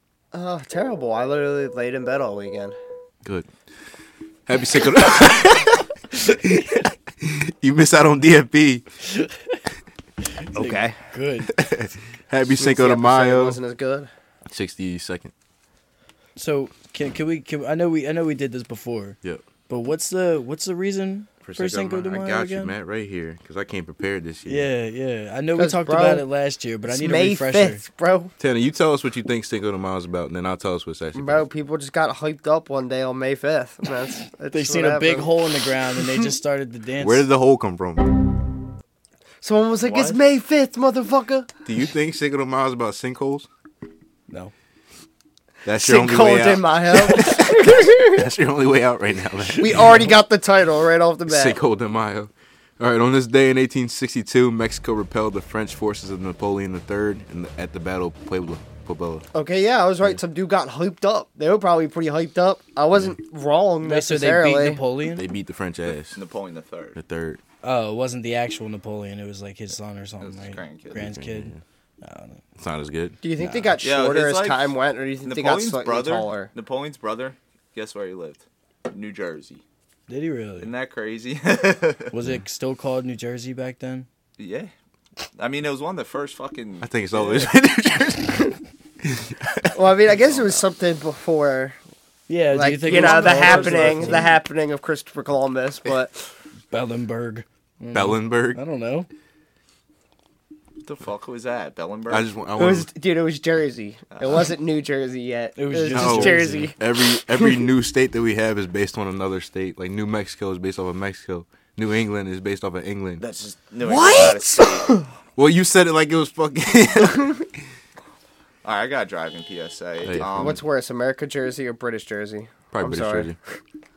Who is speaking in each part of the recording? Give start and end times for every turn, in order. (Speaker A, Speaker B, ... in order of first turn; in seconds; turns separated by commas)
Speaker A: 0.3-2.8, Speaker B: 4.5-8.8, Speaker C: 9.1-9.6, Speaker C: 10.4-11.5, Speaker A: 10.6-10.9, Speaker B: 11.5-13.6, Speaker A: 12.6-14.1, Speaker B: 14.5-15.3, Speaker C: 16.4-19.2, Speaker C: 19.7-22.7, Speaker B: 21.4-24.7, Speaker C: 24.5-27.8, Speaker A: 25.6-26.3, Speaker A: 26.9-28.3, Speaker B: 28.4-31.5, Speaker A: 31.2-35.4, Speaker C: 34.5-37.3, Speaker B: 37.0-38.1, Speaker A: 39.4-41.5, Speaker D: 39.8-40.2, Speaker B: 41.7-43.5, Speaker B: 45.6-50.1, Speaker A: 45.7-48.2, Speaker A: 49.5-51.6, Speaker B: 51.3-59.3, Speaker A: 59.3-64.8, Speaker C: 63.8-65.3, Speaker B: 65.1-66.2, Speaker D: 65.9-67.0, Speaker B: 67.0-67.4, Speaker C: 67.6-72.4, Speaker D: 70.2-71.0, Speaker B: 70.9-71.6, Speaker B: 72.6-73.2, Speaker A: 73.2-76.5, Speaker C: 73.4-73.8, Speaker D: 73.8-79.6, Speaker C: 80.1-80.7, Speaker D: 80.6-82.1, Speaker C: 82.1-84.1, Speaker D: 84.4-84.7, Speaker D: 85.4-87.5, Speaker B: 86.8-89.8, Speaker A: 89.7-91.8, Speaker D: 90.1-90.6, Speaker C: 92.3-94.3, Speaker A: 92.5-96.1, Speaker B: 92.9-93.9, Speaker C: 96.7-99.1, Speaker B: 97.9-98.6, Speaker D: 100.8-102.3, Speaker B: 102.1-102.9, Speaker A: 102.6-107.6, Speaker D: 104.1-104.5, Speaker C: 105.6-106.7, Speaker B: 105.9-113.2, Speaker D: 113.2-114.9, Speaker A: 113.8-115.1, Speaker B: 115.4-117.5, Speaker D: 118.6-120.6, Speaker B: 120.0-120.6, Speaker A: 120.4-123.3, Speaker B: 122.7-123.4